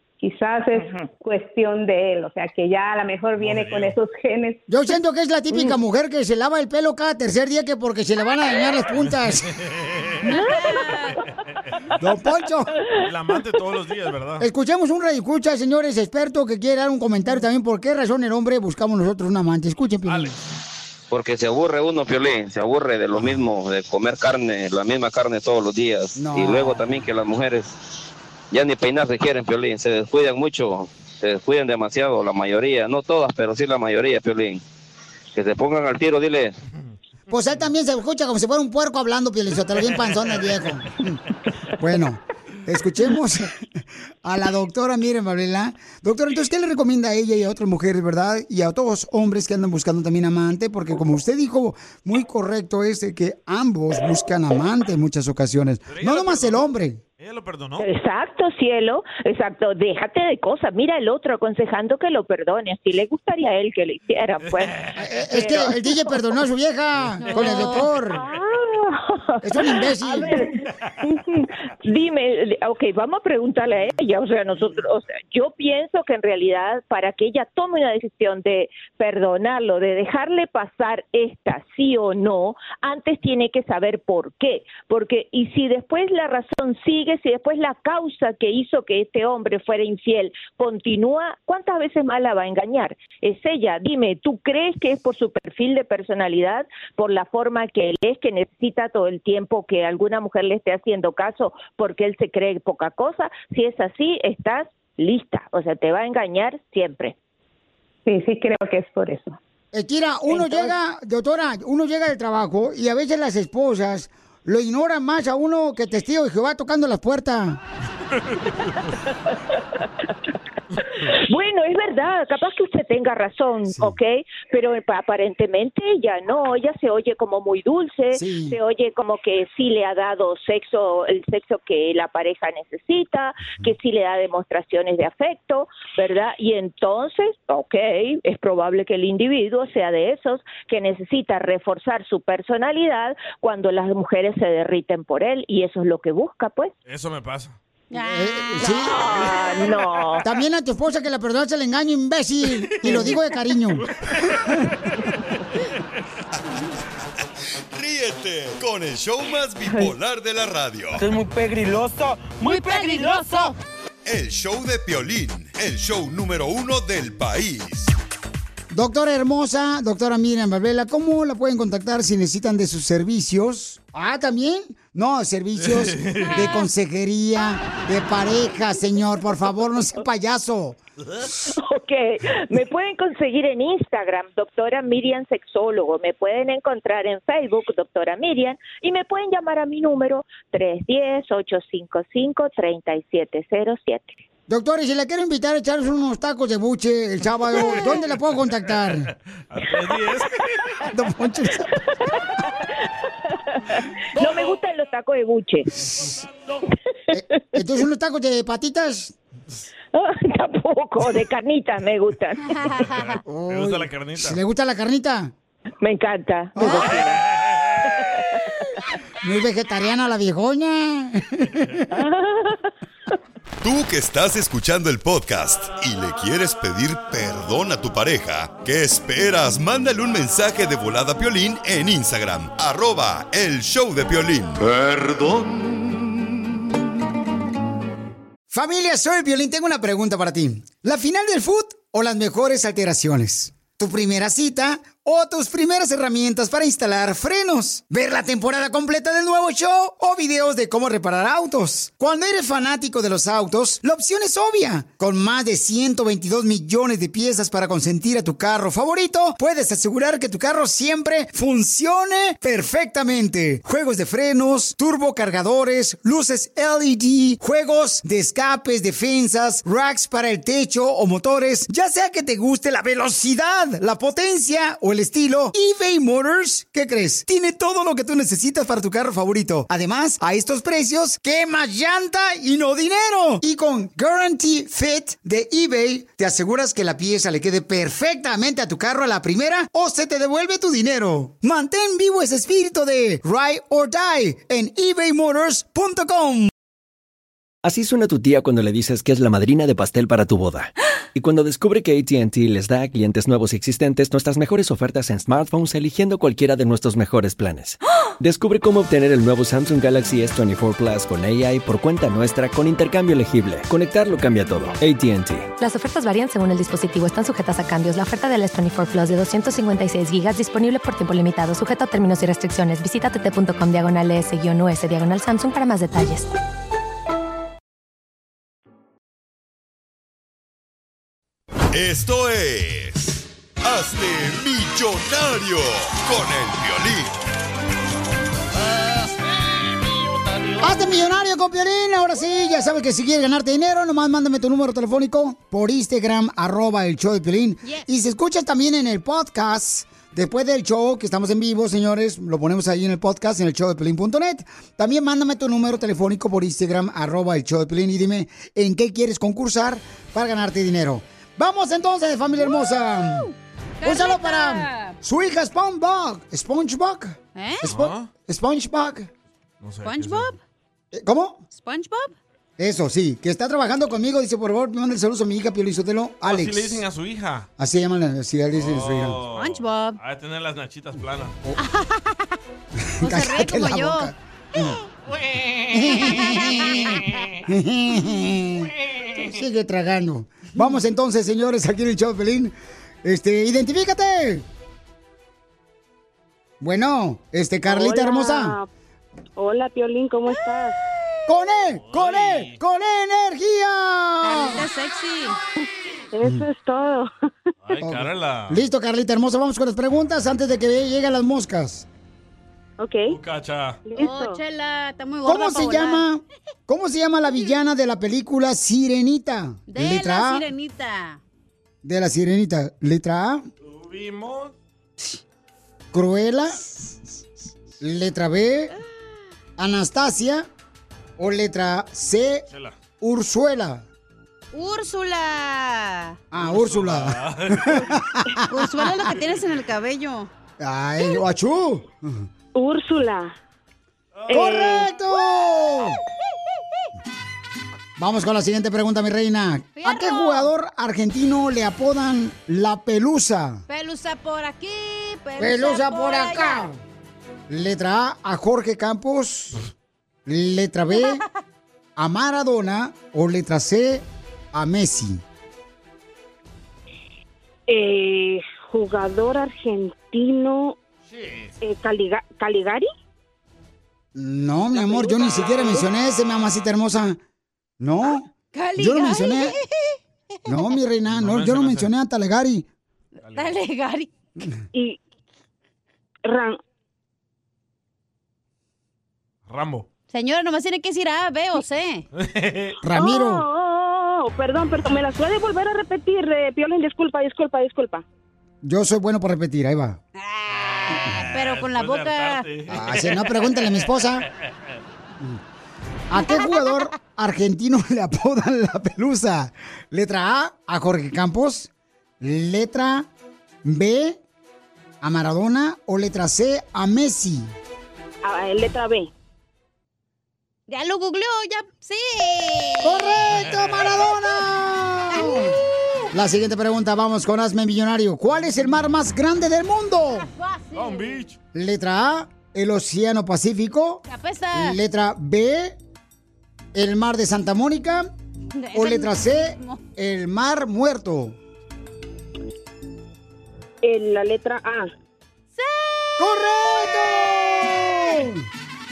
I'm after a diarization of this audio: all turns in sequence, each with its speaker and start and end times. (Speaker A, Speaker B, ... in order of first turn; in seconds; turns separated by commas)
Speaker A: 0.2-4.6, Speaker B: 3.4-4.0, Speaker C: 4.7-9.5, Speaker B: 9.6-10.3, Speaker D: 10.3-11.2, Speaker C: 12.0-12.7, Speaker B: 13.0-14.4, Speaker C: 14.4-20.3, Speaker B: 20.1-20.4, Speaker E: 21.1-27.7, Speaker C: 26.1-26.9, Speaker E: 28.5-34.6, Speaker E: 35.3-36.5, Speaker C: 37.3-41.1, Speaker B: 39.8-40.5, Speaker C: 41.8-43.6, Speaker C: 44.2-57.0, Speaker B: 55.9-56.7, Speaker B: 57.2-57.9, Speaker F: 57.8-64.7, Speaker B: 64.4-65.0, Speaker C: 65.0-68.2, Speaker F: 65.3-65.9, Speaker D: 67.3-67.9, Speaker F: 68.1-68.8, Speaker C: 69.4-70.3, Speaker F: 70.0-70.5, Speaker B: 70.6-70.9, Speaker F: 71.4-107.1, Speaker A: 108.0-109.4, Speaker C: 109.7-117.6, Speaker F: 121.0-146.7, Speaker C: 123.7-124.0, Speaker C: 128.1-128.6, Speaker B: 146.8-147.6, Speaker D: 147.9-149.3, Speaker C: 148.0-149.0, Speaker F: 148.8-150.2, Speaker C: 150.2-153.8, Speaker B: 153.8-155.4, Speaker G: 157.7-161.0, Speaker H: 161.0-163.5, Speaker D: 162.4-163.5, Speaker G: 164.1-167.9, Speaker C: 168.7-180.8, Speaker B: 175.6-176.6, Speaker F: 181.5-194.2, Speaker C: 194.5-199.1, Speaker B: 197.6-198.1, Speaker B: 199.5-200.6, Speaker C: 200.9-201.7, Speaker F: 204.1-205.7, Speaker C: 207.1-209.2, Speaker F: 209.9-212.4, Speaker D: 212.5-213.2, Speaker B: 212.8-214.4, Speaker C: 213.2-215.3, Speaker F: 215.8-217.2, Speaker C: 216.6-216.9, Speaker B: 217.0-218.0, Speaker C: 219.2-221.8, Speaker G: 223.6-235.4, Speaker C: 238.5-296.5, Speaker I: 297.6-315.5, Speaker J: 315.6-326.3, Speaker G: 331.7-337.1, Speaker B: 339.9-340.6, Speaker C: 340.6-363.3, Speaker D: 363.8-364.9, Speaker C: 363.8-369.1, Speaker D: 367.3-367.7, Speaker B: 367.6-368.1, Speaker B: 369.6-370.4, Speaker D: 369.8-370.4, Speaker C: 370.9-371.4, Speaker D: 371.5-372.1, Speaker C: 372.6-376.8, Speaker B: 376.2-377.5, Speaker C: 377.6-379.2, Speaker B: 378.5-381.4, Speaker D: 379.3-380.0, Speaker D: 381.6-382.3, Speaker C: 383.0-384.8, Speaker D: 383.0-384.1, Speaker B: 385.1-387.3, Speaker C: 385.7-394.4, Speaker D: 386.1-386.7, Speaker B: 388.9-389.3, Speaker C: 396.6-398.6, Speaker K: 397.6-398.6, Speaker K: 399.4-400.7, Speaker C: 401.3-404.7, Speaker B: 401.8-402.6, Speaker D: 404.2-405.4, Speaker K: 406.1-407.1, Speaker B: 407.6-408.6, Speaker C: 407.8-411.9, Speaker K: 412.8-413.1, Speaker B: 413.1-413.8, Speaker K: 413.9-414.4, Speaker D: 413.9-416.0, Speaker C: 415.2-420.5, Speaker D: 419.7-421.2, Speaker C: 421.8-423.4, Speaker B: 423.6-424.5, Speaker C: 425.9-426.6, Speaker C: 427.8-428.7, Speaker C: 429.6-430.5, Speaker C: 431.2-432.4, Speaker B: 432.5-432.8, Speaker C: 433.0-433.9, Speaker D: 434.5-436.2, Speaker C: 436.3-439.1, Speaker B: 436.4-438.0, Speaker D: 438.5-440.3, Speaker C: 440.6-442.2, Speaker K: 442.5-443.3, Speaker B: 444.1-444.4, Speaker K: 444.3-444.8, Speaker C: 444.3-446.0, Speaker C: 448.0-453.6, Speaker D: 449.8-450.5, Speaker D: 453.7-456.7, Speaker C: 455.4-456.8, Speaker C: 457.5-459.6, Speaker C: 460.2-461.2, Speaker C: 461.9-465.2, Speaker K: 467.7-470.7, Speaker B: 471.1-471.5, Speaker K: 471.6-472.9, Speaker C: 474.1-477.2, Speaker K: 474.7-475.4, Speaker B: 475.2-476.6, Speaker C: 477.8-479.6, Speaker D: 478.5-479.9, Speaker C: 480.4-482.6, Speaker B: 481.1-481.9, Speaker B: 483.2-483.6, Speaker D: 483.3-484.1, Speaker K: 486.3-486.5, Speaker B: 489.5-489.9, Speaker D: 490.1-492.0, Speaker B: 492.1-492.8, Speaker C: 492.8-493.4, Speaker K: 492.9-498.0, Speaker C: 498.6-500.0, Speaker D: 500.2-502.5, Speaker C: 500.9-501.2, Speaker B: 501.1-504.2, Speaker C: 502.7-504.2, Speaker C: 506.1-511.7, Speaker C: 512.2-513.1, Speaker C: 513.6-514.2, Speaker C: 515.0-517.5, Speaker K: 518.2-519.1, Speaker D: 520.7-523.1, Speaker C: 522.8-525.5, Speaker B: 523.3-524.0, Speaker D: 525.1-526.1, Speaker C: 526.1-530.3, Speaker D: 530.1-531.2, Speaker B: 530.7-531.4, Speaker C: 531.5-535.8, Speaker D: 534.1-534.8, Speaker C: 536.7-538.1, Speaker D: 538.5-539.8, Speaker C: 538.7-541.4, Speaker K: 543.8-544.9, Speaker D: 545.5-547.0, Speaker C: 546.2-548.4